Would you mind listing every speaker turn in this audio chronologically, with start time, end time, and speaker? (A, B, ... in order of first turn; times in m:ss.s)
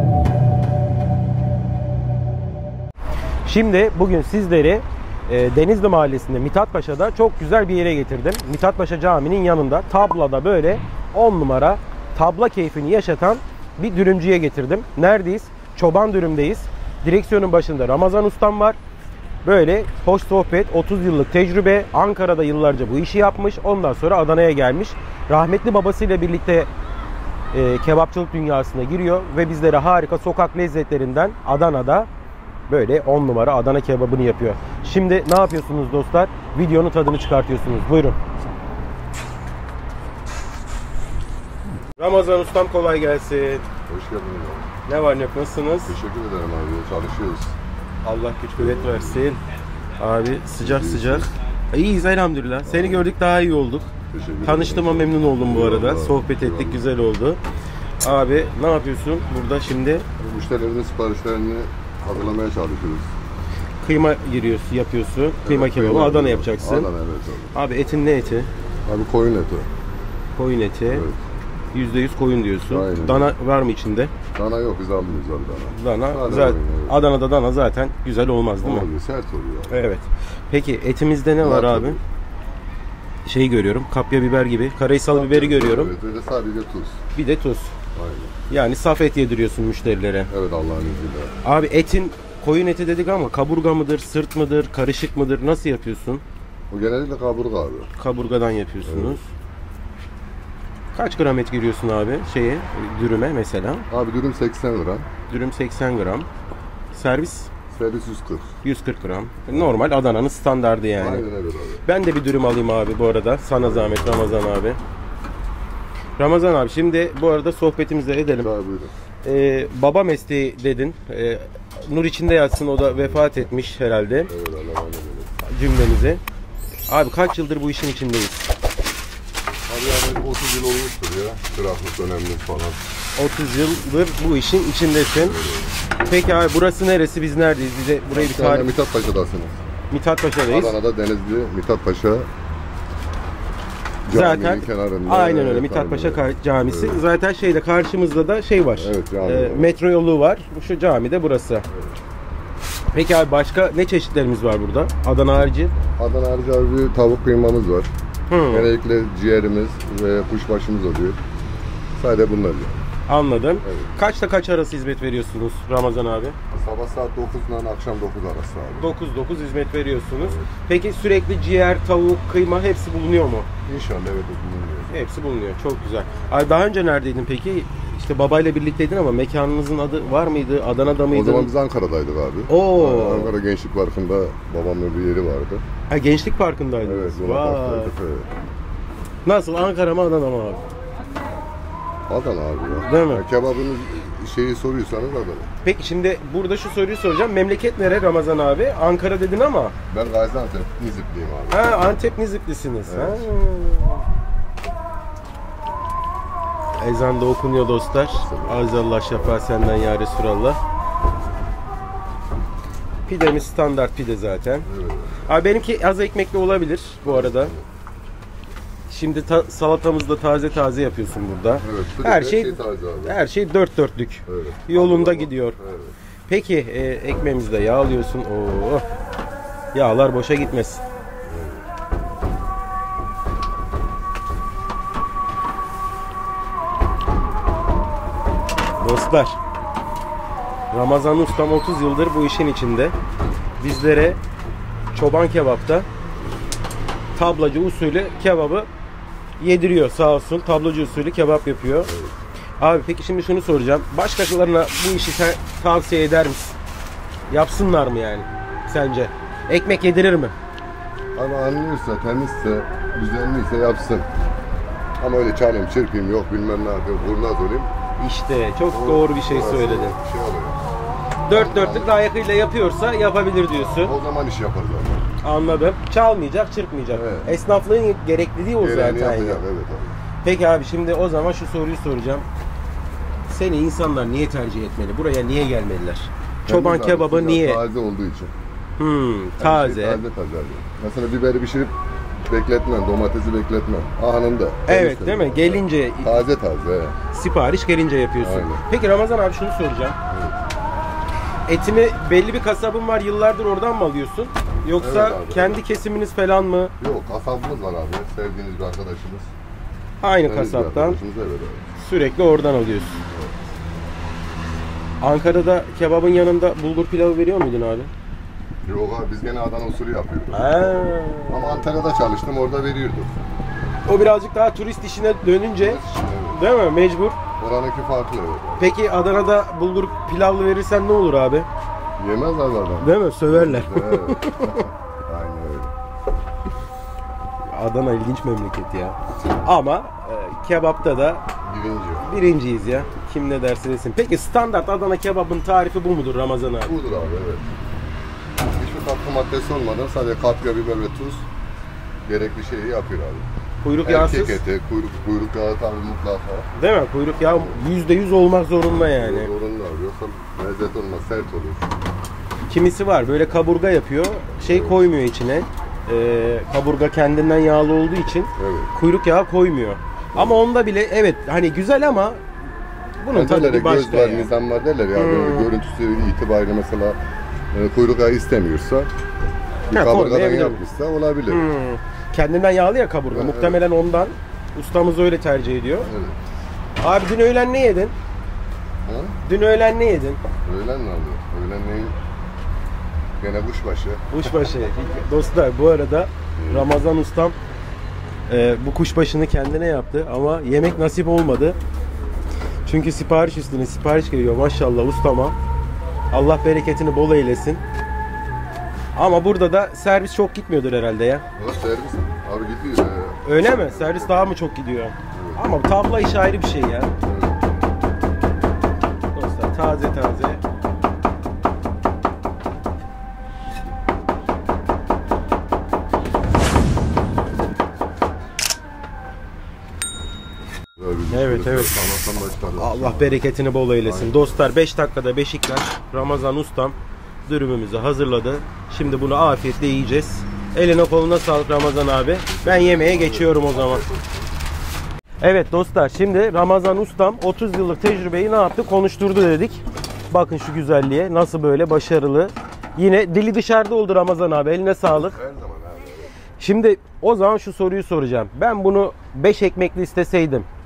0:03.4-0:18.8 A
0:19.4-0:26.7 A
0:27.5-0:32.1 A
0:32.7-0:38.2 A
0:42.0-0:43.6 A
0:43.9-0:44.7 B
0:44.8-0:45.9 A
0:45.9-0:47.5 B
0:48.0-0:49.4 A
0:48.6-0:49.3 B
0:50.0-0:53.9 A
0:50.6-0:51.3 B
0:52.6-0:53.1 B
0:54.1-0:56.8 B
0:54.4-0:57.4 A
0:58.0-1:00.0 A
1:00.2-1:03.1 B
1:03.8-1:06.9 A
1:05.4-1:07.5 B
1:07.5-1:08.5 A
1:08.8-1:09.7 B
1:10.4-1:11.1 A
1:10.9-1:11.2 B
1:11.7-1:14.1 A
1:12.7-1:13.3 B
1:14.3-1:17.0 B
1:15.7-1:18.9 A
1:18.6-1:19.9 B
1:19.7-1:22.0 A
1:21.4-1:22.0 B
1:23.2-1:25.9 A
1:25.1-1:27.0 B
1:27.2-1:27.7 A
1:27.9-1:28.3 B
1:28.5-1:30.3 A
1:30.3-1:31.3 B
1:31.4-1:36.2 A
1:36.7-1:37.9 B
1:38.0-1:39.2 A
1:38.8-1:39.2 B
1:40.9-1:43.9 A
1:43.9-1:45.1 B
1:45.3-1:46.3 A
1:46.9-1:47.5 A
1:47.7-1:48.5 B
1:48.6-1:51.2 A
1:51.0-1:51.8 B
1:51.8-1:54.8 A
1:53.6-1:54.5 B
1:56.2-1:58.5 A
1:58.4-1:58.9 B
1:59.2-2:04.3 A
2:02.9-2:03.5 B
2:04.3-2:05.3 B
2:05.4-2:06.2 A
2:06.9-2:08.5 A
2:09.7-2:12.8 B
2:13.2-2:15.4 A
2:15.2-2:15.7 B
2:16.0-2:18.7 A
2:18.1-2:19.6 B
2:19.9-2:20.7 A
2:20.5-2:22.3 B
2:24.0-2:27.0 B
2:24.1-2:31.6 A
2:28.8-2:29.8 B
2:31.7-2:32.0 B
2:32.9-2:35.7 A
2:36.0-2:37.9 B
2:38.3-2:38.7 A
2:38.5-2:41.2 B
2:42.0-2:42.9 B
2:43.1-2:46.4 A
2:43.6-2:43.9 B
2:46.5-2:48.9 B
2:48.8-2:53.5 A
2:50.2-2:50.5 B
2:53.6-2:54.9 B
2:54.9-3:01.5 A
3:01.1-3:05.6 B
3:02.5-3:03.3 A
3:05.9-3:07.9 A
3:06.8-3:08.3 B
3:09.2-3:10.6 A
3:12.1-3:15.5 B
3:12.8-3:13.2 A
3:15.6-3:19.7 A
3:19.9-3:21.9 B
3:21.5-3:24.0 A
3:22.9-3:23.3 B
3:26.8-3:30.6 A
3:28.1-3:29.3 B
3:33.0-3:34.6 A
3:34.6-3:35.1 B
3:35.2-3:37.5 A
3:37.0-3:37.6 B
3:38.9-3:45.6 A
3:41.6-3:43.2 B
3:44.3-3:45.9 B
3:46.3-3:48.8 A
3:49.7-3:50.8 A
3:51.2-3:51.6 B
3:58.8-3:59.4 A
4:00.7-4:02.9 A
4:03.6-4:04.2 A
4:04.9-4:05.9 A
4:07.1-4:08.7 A
4:09.4-4:11.9 A
4:11.8-4:12.1 B
4:12.6-4:16.6 A
4:17.3-4:20.3 A
4:21.1-4:24.1 B
4:25.0-4:27.7 B
4:28.0-4:29.9 A
4:28.7-4:30.6 B
4:31.3-4:33.9 A
4:31.3-4:31.9 B
4:33.6-4:35.1 B
4:35.2-4:39.4 A
4:36.9-4:37.3 B
4:38.6-4:40.0 B
4:40.2-4:42.2 A
4:43.3-4:47.6 A
4:46.4-4:48.3 B
4:48.8-4:50.0 A
4:49.4-4:57.0 B
4:54.7-4:56.2 A
4:57.1-5:00.0 A
4:58.2-4:58.6 B
5:00.1-5:00.4 B
5:01.5-5:06.7 A
5:04.8-5:05.6 B
5:06.8-5:09.3 B
5:10.0-5:11.0 A
5:10.2-5:11.6 B
5:11.8-5:13.0 A
5:13.1-5:13.3 B
5:15.0-5:17.9 A
5:18.6-5:23.2 B
5:20.3-5:21.7 A
5:23.9-5:25.8 A
5:25.6-5:26.4 B
5:26.3-5:27.2 A
5:27.4-5:28.7 B
5:28.6-5:31.5 A
5:32.0-5:35.7 B
5:32.8-5:34.7 A
5:37.5-5:41.2 A
5:41.4-5:42.3 B
5:42.0-5:46.7 A
5:46.6-5:47.5 B
5:48.5-5:51.3 B
5:52.0-5:53.3 B
5:53.6-5:54.4 A
5:53.8-5:56.5 B
5:56.5-5:59.3 A
5:57.2-5:57.7 B
5:58.9-6:01.7 B
6:02.5-6:12.2 A
6:04.4-6:04.8 B
6:08.4-6:08.7 B
6:10.1-6:10.4 B
6:13.0-6:14.3 A
6:13.1-6:17.0 B
6:14.9-6:15.5 A
6:17.5-6:18.9 B
6:19.7-6:21.5 B
6:19.7-6:20.6 A
6:21.3-6:25.9 A
6:23.1-6:23.6 B
6:25.8-6:26.2 B
6:26.8-6:27.9 A
6:28.8-6:29.2 B
6:29.2-6:30.2 A
6:30.4-6:31.9 B
6:33.2-6:34.2 B
6:34.1-6:37.4 A
6:36.4-6:36.8 B
6:38.3-6:41.6 A
6:42.6-6:45.4 A
6:46.1-6:47.6 A
6:49.0-6:51.2 A
6:51.4-6:54.4 B
6:53.2-6:56.9 A
6:55.1-6:55.5 B
6:57.0-6:57.4 B
6:59.1-7:00.4 A
7:10.8-7:13.2 B
7:11.1-7:11.8 A
7:12.6-7:16.8 A
7:13.8-7:14.5 B
7:17.3-7:23.8 A
7:22.2-7:24.3 B
7:25.2-7:35.2 A
7:34.9-7:36.1 B
7:36.4-7:40.5 A